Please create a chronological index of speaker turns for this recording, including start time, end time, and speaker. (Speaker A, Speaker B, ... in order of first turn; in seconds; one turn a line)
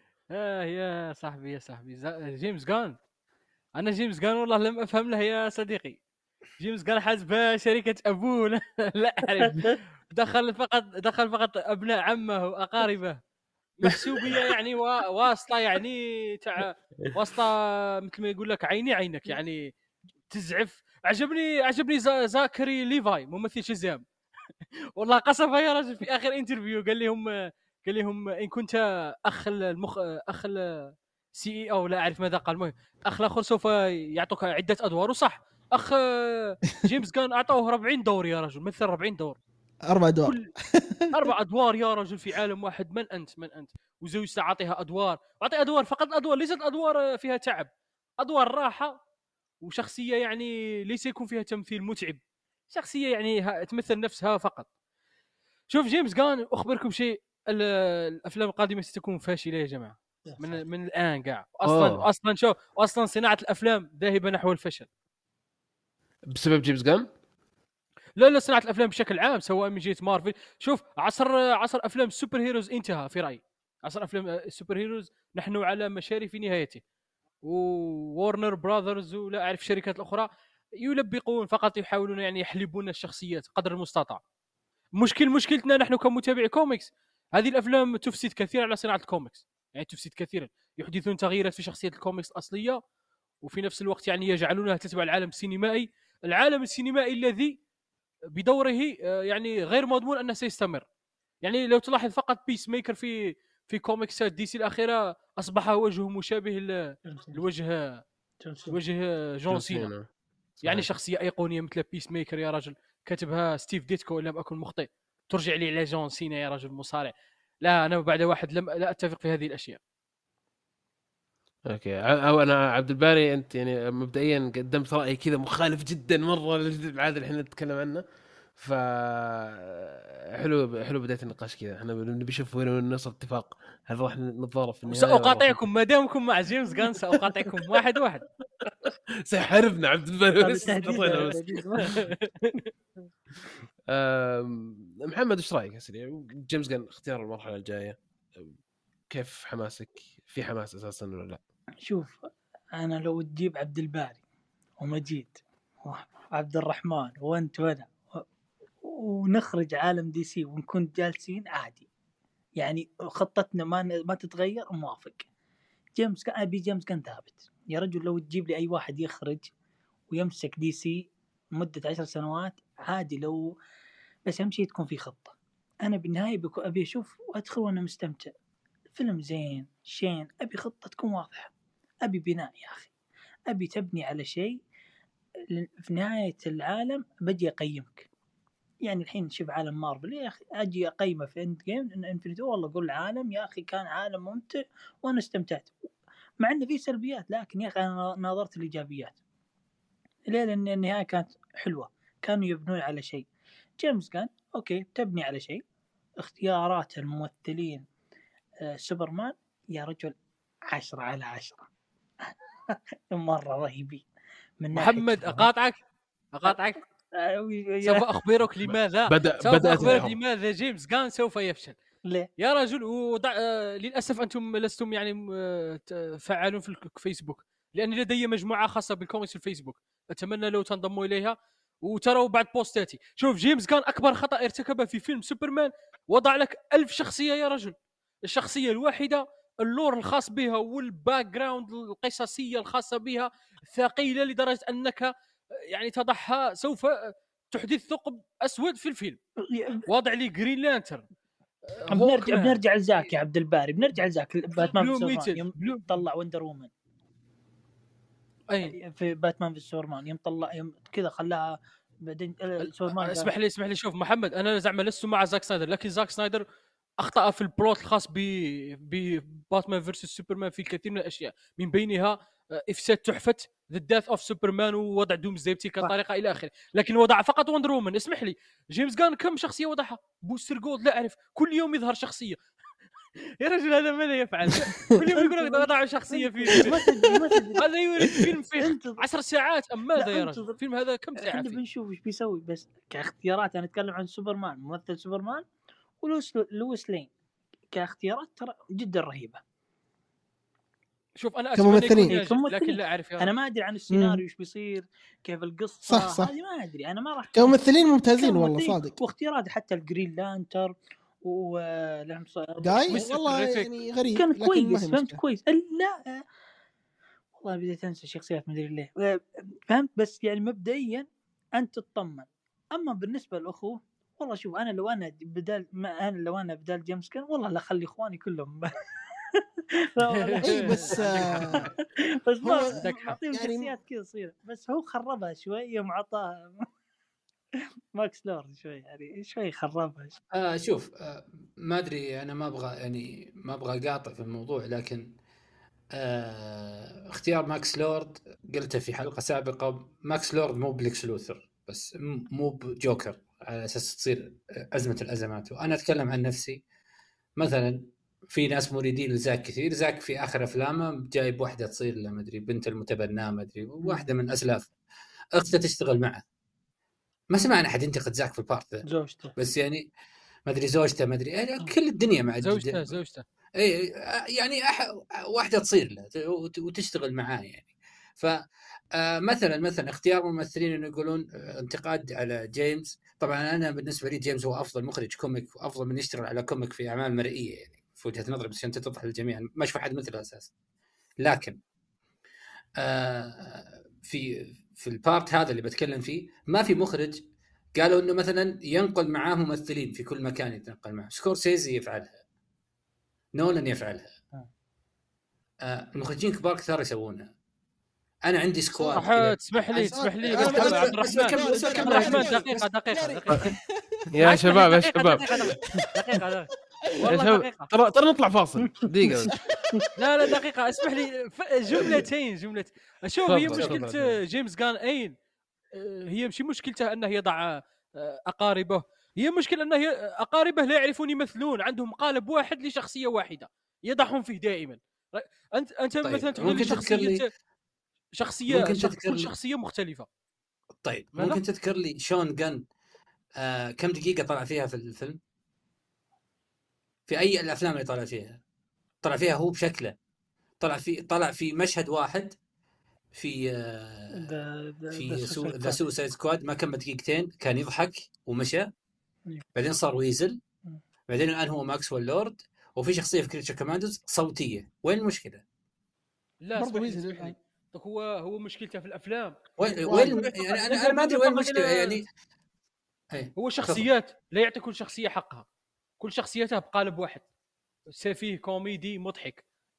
Speaker A: 0.3-3.0
Speaker A: 3.8-6.0
Speaker A: 6.6-13.2
Speaker B: 9.4-9.7
Speaker A: 13.8-19.6
Speaker A: 20.3-24.0
Speaker A: 25.0-27.3
Speaker A: 27.8-39.4
Speaker C: 39.9-41.3
Speaker A: 40.2-40.5
Speaker A: 41.1-47.7
Speaker A: 48.2-49.0
Speaker A: 49.6-52.2
Speaker A: 52.7-54.7
Speaker A: 55.7-64.9
Speaker B: 60.2-60.5
Speaker D: 61.6-62.0
Speaker D: 66.3-67.1
Speaker A: 68.2-76.8
Speaker A: 77.4-80.3
Speaker A: 80.8-84.2
Speaker A: 85.0-92.8
Speaker A: 93.4-97.5
Speaker A: 98.3-100.8
Speaker A: 101.4-106.8
Speaker B: 107.1-107.4
Speaker A: 107.3-108.0
Speaker B: 108.4-108.8
Speaker A: 108.7-109.9
Speaker D: 109.5-110.1
Speaker D: 110.6-110.9
Speaker A: 110.6-119.8
Speaker D: 121.7-128.0
Speaker D: 128.6-135.6
Speaker A: 134.8-138.2
Speaker D: 138.8-142.1
Speaker B: 140.4-142.0
Speaker A: 141.8-142.7
Speaker D: 143.9-148.5
Speaker D: 149.1-151.4
Speaker B: 151.8-154.2
Speaker B: 154.8-158.2
Speaker B: 158.8-161.8
Speaker B: 162.6-165.3
Speaker B: 165.9-169.5
Speaker B: 170.1-173.5
Speaker B: 174.2-178.3
Speaker B: 178.9-181.5
Speaker B: 182.0-182.9
Speaker B: 183.5-184.6
Speaker B: 185.5-188.1
Speaker B: 188.8-195.7
Speaker B: 196.4-199.2
Speaker B: 200.3-203.2
Speaker B: 203.8-205.6
Speaker B: 206.2-207.9
Speaker B: 208.6-210.1
Speaker B: 210.7-211.7
Speaker B: 212.3-214.0
Speaker B: 214.6-215.4
Speaker A: 214.7-215.8
Speaker A: 216.3-216.8
Speaker B: 217.2-218.0
Speaker A: 217.8-221.7
Speaker D: 218.6-220.2
Speaker A: 222.4-237.7
Speaker A: 238.2-245.1
Speaker A: 245.7-249.2
Speaker B: 249.5-249.8
Speaker A: 249.9-251.0
Speaker A: 251.7-252.6
Speaker B: 251.9-256.7
Speaker A: 254.6-255.9
Speaker A: 258.5-258.8
Speaker B: 258.6-263.3
Speaker A: 262.6-266.4
Speaker A: 267.0-282.4
Speaker A: 283.4-286.8
Speaker B: 285.1-287.6
Speaker C: 286.5-286.9
Speaker A: 287.6-291.6
Speaker B: 288.6-289.0
Speaker B: 289.9-290.6
Speaker B: 291.2-295.4
Speaker B: 296.0-297.1
Speaker B: 297.7-299.4
Speaker A: 301.2-303.3
Speaker C: 301.6-302.1
Speaker B: 301.9-307.6
Speaker C: 303.9-304.2
Speaker C: 305.9-306.3
Speaker C: 307.3-308.9
Speaker B: 308.2-313.0
Speaker C: 312.6-315.2
Speaker A: 312.9-313.7
Speaker B: 314.1-316.2
Speaker B: 317.4-336.7
Speaker A: 330.1-331.7
Speaker C: 330.4-331.6
Speaker C: 332.4-333.7
Speaker A: 332.7-333.2
Speaker B: 337.9-340.2
Speaker E: 340.3-345.1
Speaker E: 345.9-356.6
Speaker E: 357.4-364.7
Speaker B: 363.8-364.1
Speaker E: 365.4-366.2
Speaker E: 367.3-368.8
Speaker B: 368.9-369.3
Speaker E: 369.4-369.8
Speaker E: 370.5-373.0
Speaker A: 372.4-373.2
Speaker E: 373.6-378.4
Speaker E: 378.9-390.5
Speaker E: 391.2-391.6
Speaker E: 392.8-397.2
Speaker E: 397.8-402.2
Speaker E: 403.3-404.1
Speaker E: 405.6-407.3
Speaker E: 408.2-409.2
Speaker C: 408.8-409.1
Speaker A: 408.9-413.4
Speaker C: 409.8-414.0
Speaker E: 410.2-412.7
Speaker D: 414.1-415.3
Speaker A: 414.2-416.5
Speaker A: 417.0-417.7
Speaker D: 417.0-419.3
Speaker A: 420.0-425.1
Speaker D: 423.2-424.1
Speaker E: 423.4-423.8
Speaker A: 425.7-437.3
Speaker E: 436.0-437.2
Speaker A: 438.2-440.1
Speaker E: 438.5-439.3
Speaker E: 440.8-442.6
Speaker A: 441.1-441.4
Speaker E: 443.4-445.2
Speaker E: 447.1-448.4
Speaker E: 449.0-449.9
Speaker E: 450.6-452.3
Speaker E: 453.1-454.3
Speaker B: 454.1-455.8
Speaker E: 454.9-458.7
Speaker E: 459.5-460.4
Speaker E: 461.1-465.4
Speaker A: 466.4-469.4
Speaker C: 466.6-467.3
Speaker E: 469.6-472.1
Speaker C: 469.9-470.2
Speaker A: 470.0-472.0
Speaker E: 473.1-473.9
Speaker A: 473.4-475.4
Speaker A: 476.0-477.2
Speaker A: 477.9-479.4